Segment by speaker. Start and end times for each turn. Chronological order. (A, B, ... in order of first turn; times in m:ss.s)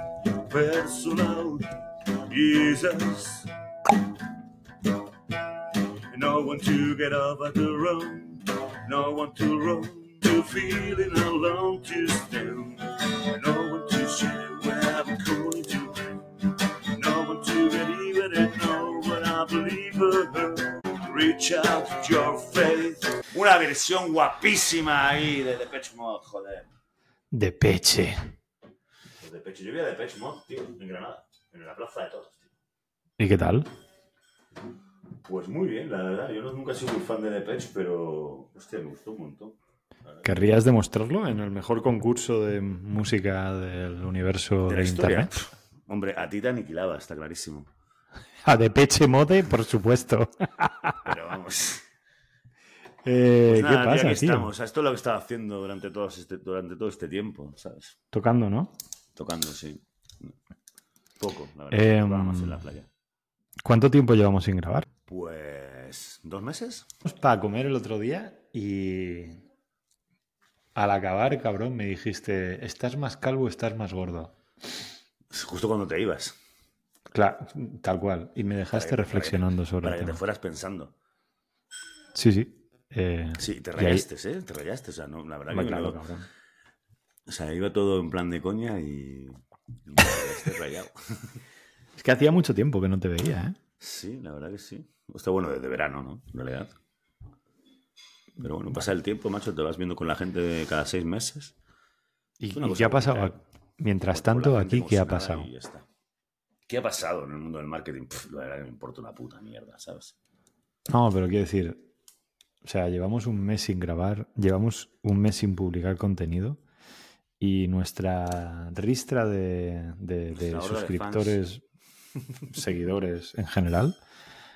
0:00.3-0:01.8 A
0:02.3-0:03.5 A
0:06.1-0:26.7 A
0:27.3-0:28.2 B
0:29.2-0:32.5 A
0:33.2-0:33.7 B
0:35.2-0:40.3 A
0:40.2-0:45.3 B
0:44.7-0:47.7 A
0:48.4-0:51.0 B
0:51.0-0:51.9 A
0:53.0-0:54.5 B
0:53.4-0:58.0 A
0:58.1-0:58.7 B
0:59.2-1:00.4 A
1:01.2-1:02.9 A
1:01.7-1:02.7 B
1:03.6-1:04.9 B
1:05.1-1:06.9 A
1:07.0-1:09.4 B
1:10.8-1:14.4 B
1:15.3-1:16.4 A
1:17.1-1:20.2 B
1:18.7-1:20.9 A
1:22.2-1:24.0 B
1:23.4-1:26.0 A
1:25.5-1:26.3 B
1:27.3-1:31.3 A
1:32.0-1:33.6 B
1:33.8-1:36.8 A
1:38.4-1:41.6 A
1:42.4-1:45.5 B
1:42.5-1:43.4 A
1:44.1-1:45.9 A
1:46.7-1:50.2 A
1:50.9-1:51.8 B
1:52.6-1:56.6 B
1:57.4-2:01.6 B
2:00.3-2:01.4 A
2:02.4-2:04.0 B